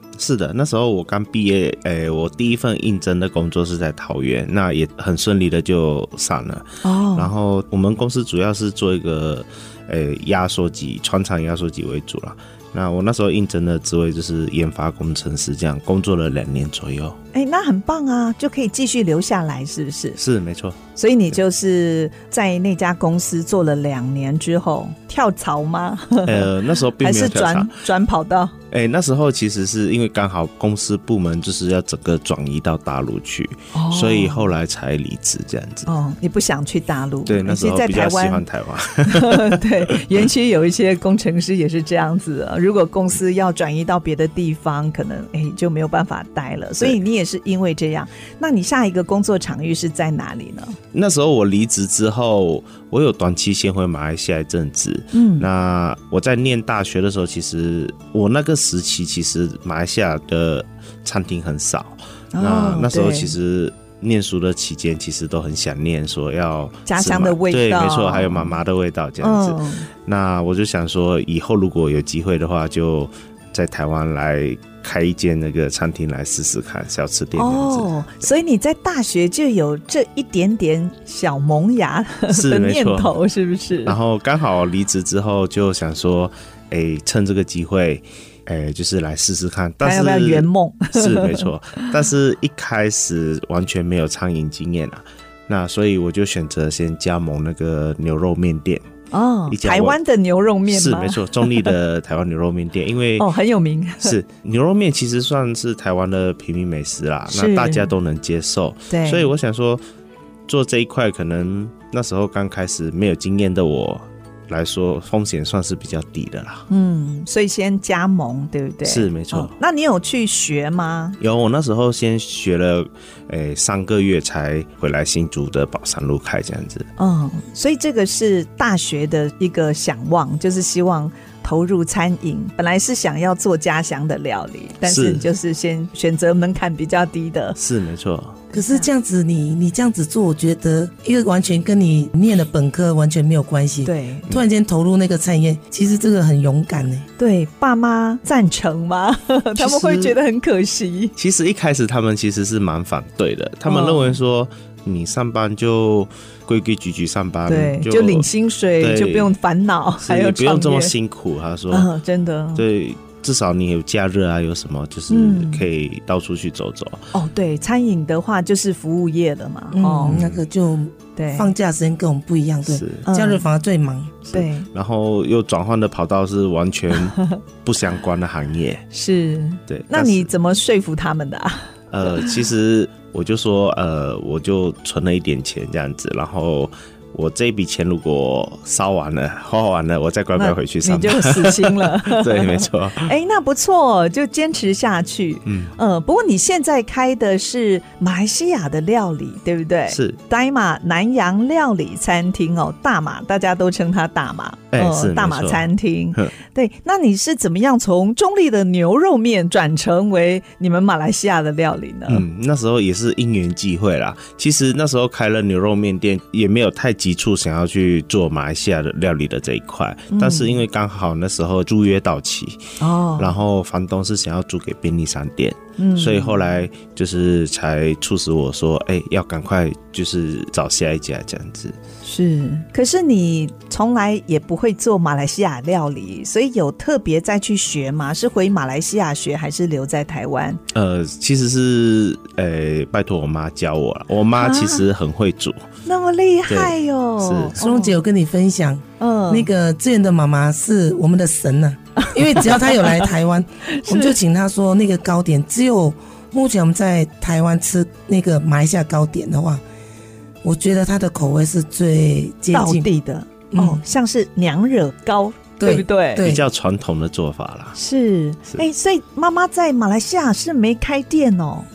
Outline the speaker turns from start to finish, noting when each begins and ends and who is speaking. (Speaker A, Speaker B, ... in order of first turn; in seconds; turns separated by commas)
Speaker A: 0.2-17.2, Speaker B: 6.8-7.3, Speaker B: 17.3-20.2, Speaker A: 20.2-20.8, Speaker B: 21.0-26.5, Speaker A: 26.2-27.8, Speaker B: 27.0-28.5, Speaker A: 28.7-35.9, Speaker B: 33.7-34.5, Speaker B: 35.9-38.5, Speaker A: 37.3-39.9, Speaker B: 39.0-50.8, Speaker A: 50.9-78.3, Speaker B: 55.1-55.5, Speaker B: 62.4-63.3, Speaker B: 66.9-68.5, Speaker B: 69.2-69.9, Speaker B: 77.4-84.0, Speaker A: 82.3-83.2, Speaker A: 83.8-98.9, Speaker B: 89.8-91.9, Speaker B: 99.1-101.7, Speaker A: 99.5-100.0, Speaker A: 100.7-103.3, Speaker B: 103.2-104.2, Speaker A: 104.0-109.8, Speaker B: 107.3-107.9, Speaker B: 108.9-109.3, Speaker A: 110.5-116.7, Speaker B: 116.7-121.2, Speaker A: 118.8-119.5, Speaker A: 121.2-126.9, Speaker B: 127.0-137.6, Speaker A: 134.8-135.3, Speaker A: 137.6-138.4, Speaker B: 138.5-138.9, Speaker C: 138.5-147.1, Speaker B: 143.8-144.3, Speaker B: 147.2-151.1, Speaker A: 149.6-150.2, Speaker A: 151.2-158.3, Speaker B: 153.7-154.2, Speaker B: 157.5-160.9, Speaker A: 158.8-159.3, Speaker A: 160.0-161.9, Speaker B: 161.7-162.6, Speaker A: 162.6-167.1, Speaker B: 165.1-165.7, Speaker B: 167.1-170.2, Speaker C: 169.7-174.3, Speaker A: 170.1-170.4, Speaker B: 171.2-171.5, Speaker A: 172.7-173.1, Speaker B: 173.1-173.4, Speaker B: 174.3-174.7, Speaker A: 174.3-178.8, Speaker B: 178.9-182.3, Speaker A: 179.7-180.3, Speaker A: 181.9-193.1, Speaker B: 190.4-212.2, Speaker A: 195.4-195.7, Speaker A: 199.9-200.2, Speaker A: 204.7-206.3, Speaker A: 212.1-231.8, Speaker B: 220.1-220.6, Speaker B: 222.8-223.3, Speaker B: 225.8-226.5, Speaker B: 232.0-240.6, Speaker A: 240.7-245.7, Speaker B: 244.4-244.9, Speaker B: 245.9-247.9, Speaker A: 246.5-247.5, Speaker C: 247.6-259.6, Speaker B: 249.0-249.5, Speaker B: 252.0-253.1, Speaker B: 253.7-254.2, Speaker C: 260.4-262.9, Speaker B: 262.5-266.2, Speaker C: 263.5-263.8, Speaker C: 265.6-266.4, Speaker A: 266.2-267.8, Speaker B: 267.8-271.7